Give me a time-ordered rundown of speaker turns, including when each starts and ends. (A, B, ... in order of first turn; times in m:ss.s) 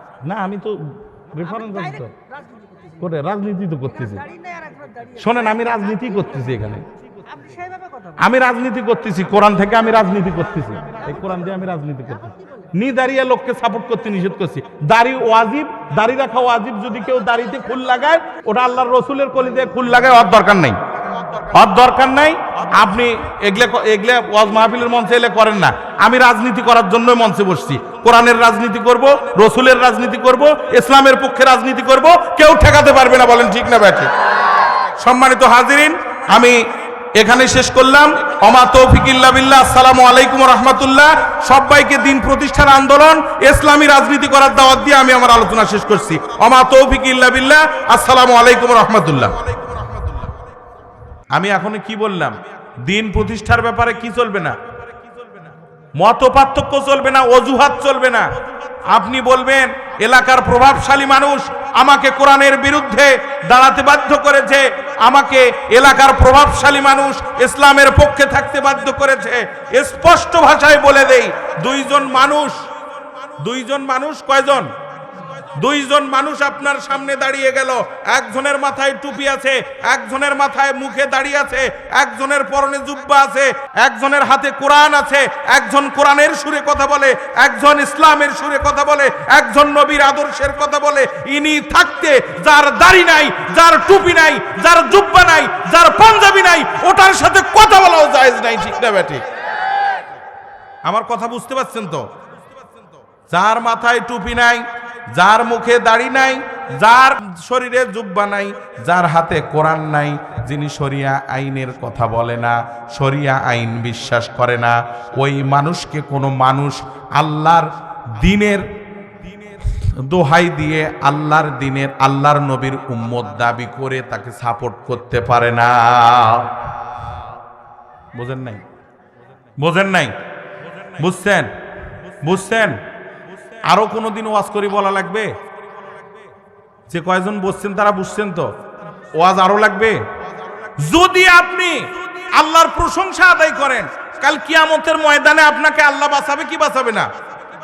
0:00.2-0:02.1 A
0:01.4-0:03.2 B
0:03.0-0:04.2 A
0:03.8-0:06.2 B
0:05.2-0:06.8 A
0:07.2-0:08.4 B
0:08.2-0:20.8 A
0:10.8-0:12.8 B
0:21.5-0:34.1 A
0:35.0-0:49.4 A
0:51.3-0:54.6 A
0:55.9-0:58.3 A
0:58.8-1:12.7 A
1:13.4-1:14.7 A
1:15.5-1:39.2 A
1:40.8-1:42.1 A
1:43.3-1:58.7 A
1:59.6-2:06.6 A
2:08.1-2:08.6 A
2:09.6-2:10.2 A
2:11.0-2:11.5 A
2:12.2-2:12.8 A
2:13.6-2:15.4 A
2:16.9-2:18.6 A
2:19.1-2:20.0 A
2:20.8-2:27.1 A